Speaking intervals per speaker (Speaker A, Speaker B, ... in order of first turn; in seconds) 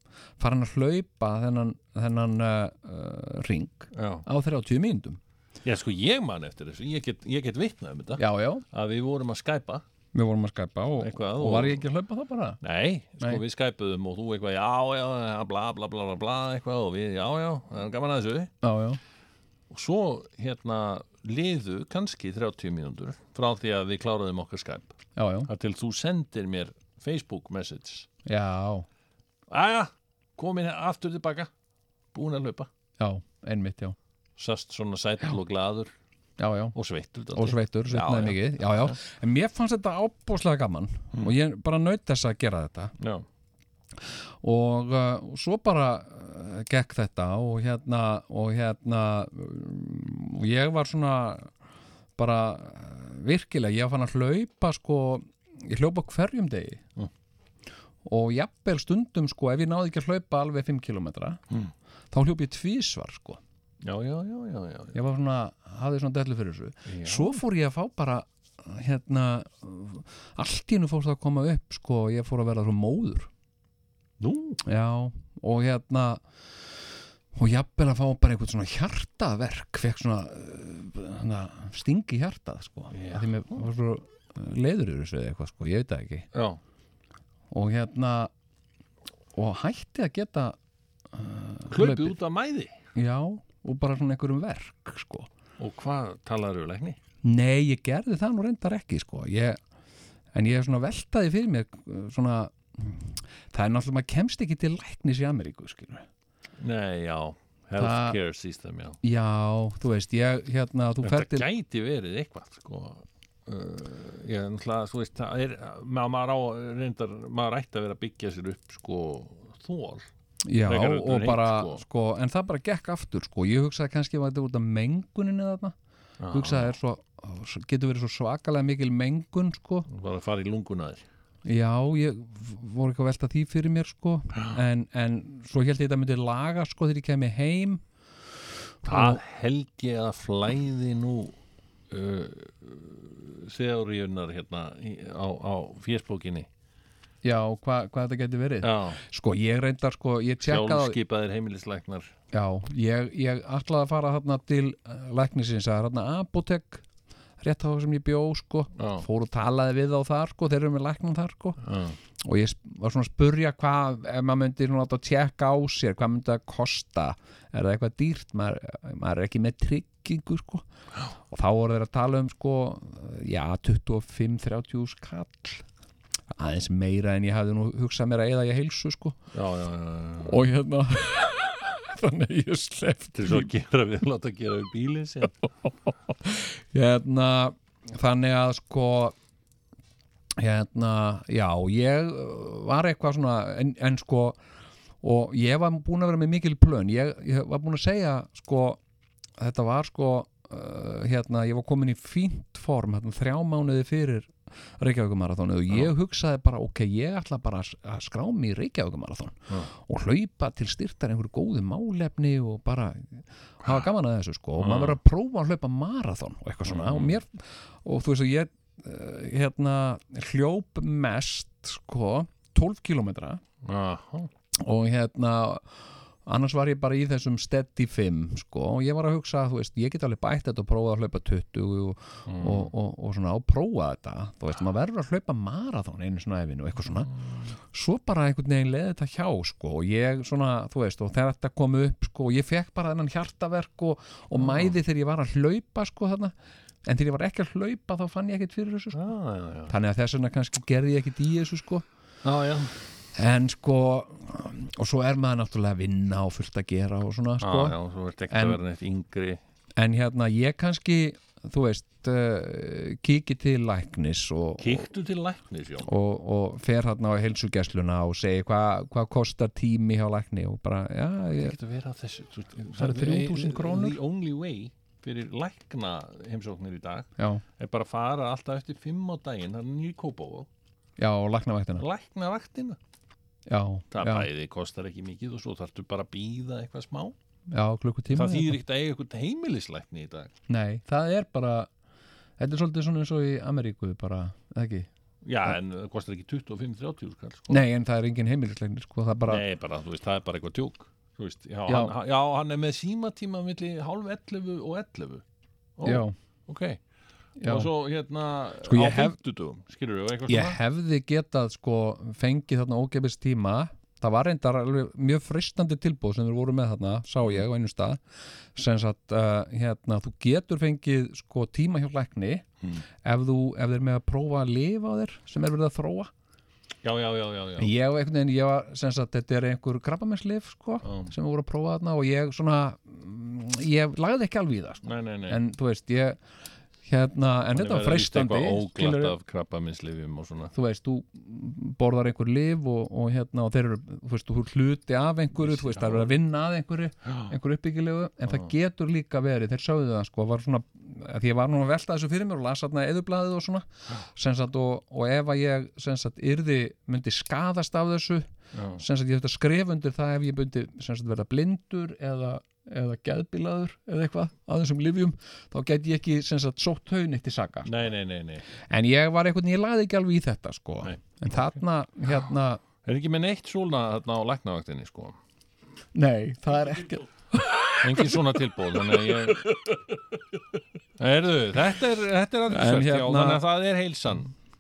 Speaker A: 0.4-5.2, 8.2-8.6, 10.1-12.6, 18.6-19.0, 25.2-25.5, 28.3-28.9, 33.0-34.0, 36.4-36.8, 37.3-43.0, 44.4-51.5, 52.2-56.8, 58.0-61.4, 62.1-63.4, 64.9-73.3, 74.7-76.2, 77.4-86.3, 87.5-88.3, 89.3-90.6, 91.1-92.2, 93.0-95.3, 97.2-99.6, 100.3-106.0, 107.8-108.2, 109.0-111.5, 120.4-125.8, 126.3-129.9, 131.4-137.8, 138.8-139.2, 147.2-151.0, 152.3-156.8, 157.4-161.6, 162.2-170.7, 171.3-175.6, 176.3-179.2, 180.2-183.5, 186.2-189.1, 190.4-194.4, 195.0-198.8, 199.4-223.4, 224.6-225.7, 226.3-237.1, 237.7-246.3, 246.8-249.0, 249.7-251.8, 253.2-257.8, 258.3-258.6, 259.8-264.9, 265.8-271.6, 272.7-274.0, 277.2-277.4, 281.0-281.9, 283.5-284.3, 287.5-288.6, 290.5-291.7, 292.4-294.9, 297.5-299.4, 301.7-301.9, 305.8-306.1, 307.4-307.7, 308.6-309.2, 310.3-318.0, 318.6-322.4, 323.0-326.1, 327.6-336.2, 336.9-339.2, 340.5-367.7, 368.7-372.6, 375.9-378.2, 382.5-383.4
Speaker B: 3.9-4.2, 5.6-9.8, 11.0-11.8, 12.6-18.5, 19.7-24.9, 25.5-28.1, 29.5-31.5, 32.1-32.7, 34.4-35.9, 36.8-39.0, 43.0-43.2, 63.8-65.0, 66.9-67.4, 74.2-74.6, 82.9-83.7, 86.3-86.6, 91.7-92.7, 95.6-97.0, 106.6-109.0, 111.0-120.1, 120.7-121.8, 126.2-126.7, 129.9-131.0, 138.9-141.4, 141.9-146.5, 148.6-149.0, 150.4-152.1, 158.8-159.1, 161.6-162.0, 179.3-180.4, 183.2-185.4, 214.6-215.0, 216.7-217.1, 223.6-224.3, 232.3-232.7, 237.1-237.4, 244.4-244.8, 248.9-249.8, 252.2-252.7, 257.4-259.4, 264.6-265.9, 271.3-280.5, 281.8-282.8, 283.9-287.1, 288.1-290.3, 295.2-297.6, 299.3-305.2, 305.8-306.8, 307.4-310.6, 326.8-327.7, 330.8-331.1, 334.8-335.4, 337.6-340.5, 345.4-346.1, 347.1-347.3, 358.5-358.8, 367.7-368.4, 372.8-375.2, 377.8-379.8, 381.0-384.3